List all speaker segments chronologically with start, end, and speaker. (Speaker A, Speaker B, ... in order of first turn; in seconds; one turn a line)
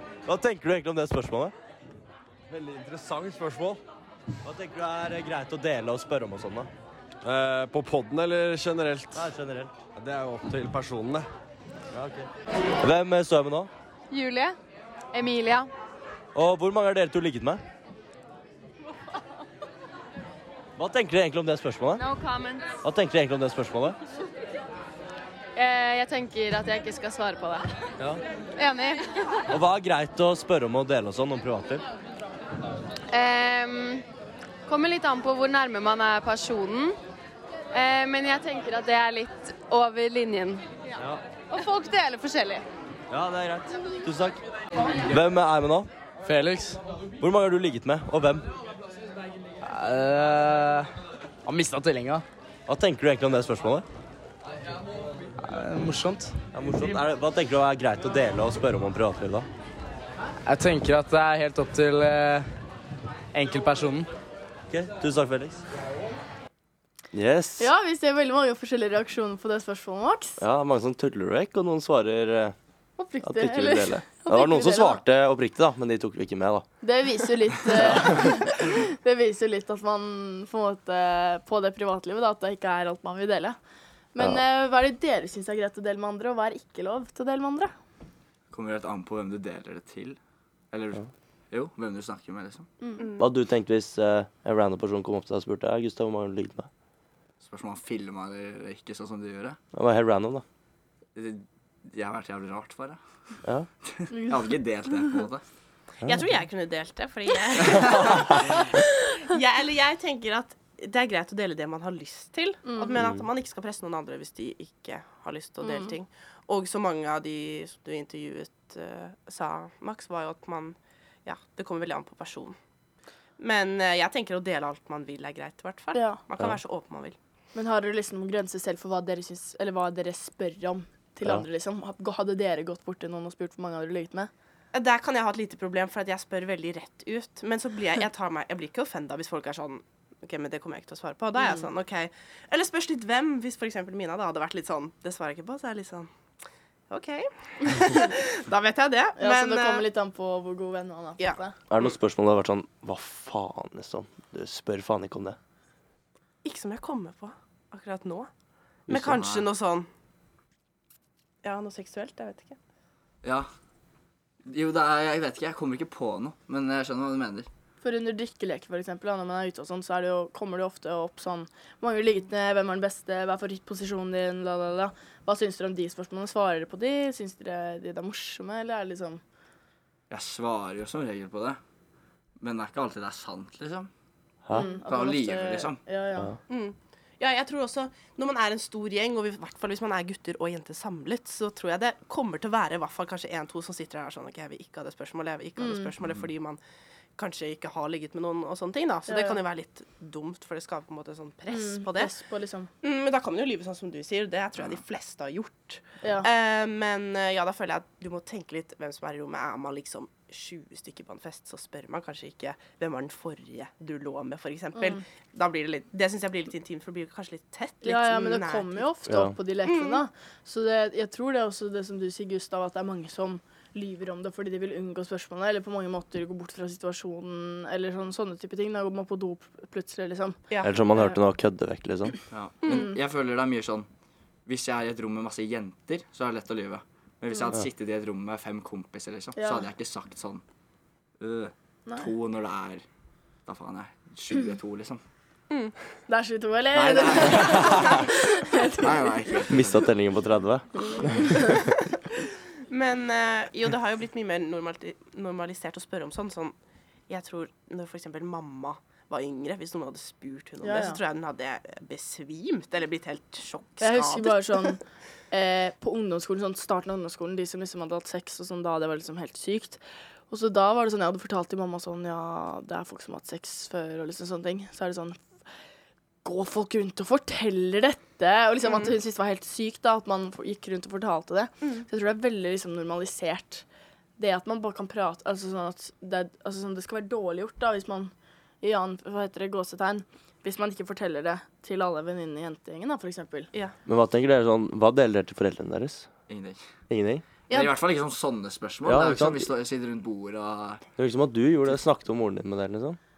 Speaker A: 0.2-1.5
Speaker B: 2.5-3.8
Speaker A: 4.4-6.7
Speaker B: 7.2-9.2
Speaker A: 9.1-9.7
Speaker B: 9.9-11.2
Speaker A: 11.9-13.7
Speaker C: 14.1-14.6
Speaker C: 15.1-15.7
Speaker A: 16.3-17.6
Speaker A: 20.8-22.1
Speaker C: 22.0-22.8
Speaker A: 22.8-24.0
Speaker C: 25.5-27.7
Speaker C: 28.6-29.3
Speaker A: 29.5-31.8
Speaker C: 33.1-34.0
Speaker C: 34.6-37.0
Speaker C: 37.7-40.6
Speaker C: 41.5-42.6
Speaker A: 43.1-44.4
Speaker A: 45.0-45.9
Speaker D: 46.2-46.8
Speaker A: 47.2-48.4
Speaker D: 49.6-50.9
Speaker D: 51.4-52.2
Speaker A: 52.7-53.9
Speaker D: 55.4-56.4
Speaker A: 56.5-59.5
Speaker D: 60.5-62.5
Speaker D: 63.3-64.1
Speaker A: 64.7-65.6
Speaker A: 67.1-67.7
Speaker E: 67.6-70.4
Speaker A: 70.4-72.5
Speaker E: 73.0-75.0
Speaker A: 73.2-76.6
Speaker E: 76.8-83.6
Speaker A: 77.7-78.5
Speaker E: 84.1-87.7
Speaker F: 88.5-90.2
Speaker F: 90.7-92.7
Speaker E: 92.8-93.1
Speaker G: 93.0-93.3
Speaker A: 93.2-96.7
Speaker F: 97.4-99.6
Speaker A: 99.7-100.4
Speaker F: 101.2-103.0
Speaker F: 103.9-105.4
Speaker E: 104.1-104.4
Speaker G: 106.0-122.5
Speaker E: 112.7-112.9
Speaker A: 112.9-113.2
Speaker E: 115.6-115.9
Speaker G: 123.4-127.2
Speaker E: 125.9-126.2
Speaker E: 127.5-134.3
Speaker G: 134.7-146.1
Speaker E: 141.4-141.7
Speaker G: 146.9-149.8
Speaker E: 149.2-151.5
Speaker A: 151.7-155.4
Speaker G: 156.4-158.3
Speaker G: 158.9-159.9
Speaker A: 158.9-159.2
Speaker F: 159.1-159.5
Speaker G: 161.4-162.6
Speaker F: 163.2-163.5
Speaker F: 164.4-167.5
Speaker E: 167.8-179.2
Speaker F: 180.1-181.6
Speaker F: 182.4-183.9
Speaker E: 184.5-186.3
Speaker F: 184.9-185.8
Speaker G: 186.5-196.6
Speaker E: 195.6-195.9
Speaker G: 197.2-202.1
Speaker E: 199.1-199.4
Speaker E: 201.5-202.7
Speaker G: 202.8-218.9
Speaker E: 206.0-206.3
Speaker E: 217.8-231.2
Speaker A: 219.1-219.3
Speaker G: 219.6-220.0
Speaker A: 230.6-232.2
Speaker F: 232.3-233.9
Speaker F: 234.4-240.4
Speaker E: 239.4-239.7
Speaker F: 241.2-242.8
Speaker F: 243.4-245.0
Speaker E: 246.1-249.2
Speaker F: 246.7-249.9
Speaker A: 249.5-251.5
Speaker E: 250.8-251.7
Speaker G: 252.7-256.6
Speaker G: 257.1-264.7
Speaker E: 260.6-261.0
Speaker E: 263.8-275.2
Speaker E: 276.2-283.6
Speaker E: 284.2-293.5
Speaker A: 293.9-296.1
Speaker F: 296.3-296.6
Speaker A: 296.9-297.2
Speaker F: 297.5-300.8
Speaker A: 298.8-299.5
Speaker A: 301.0-303.0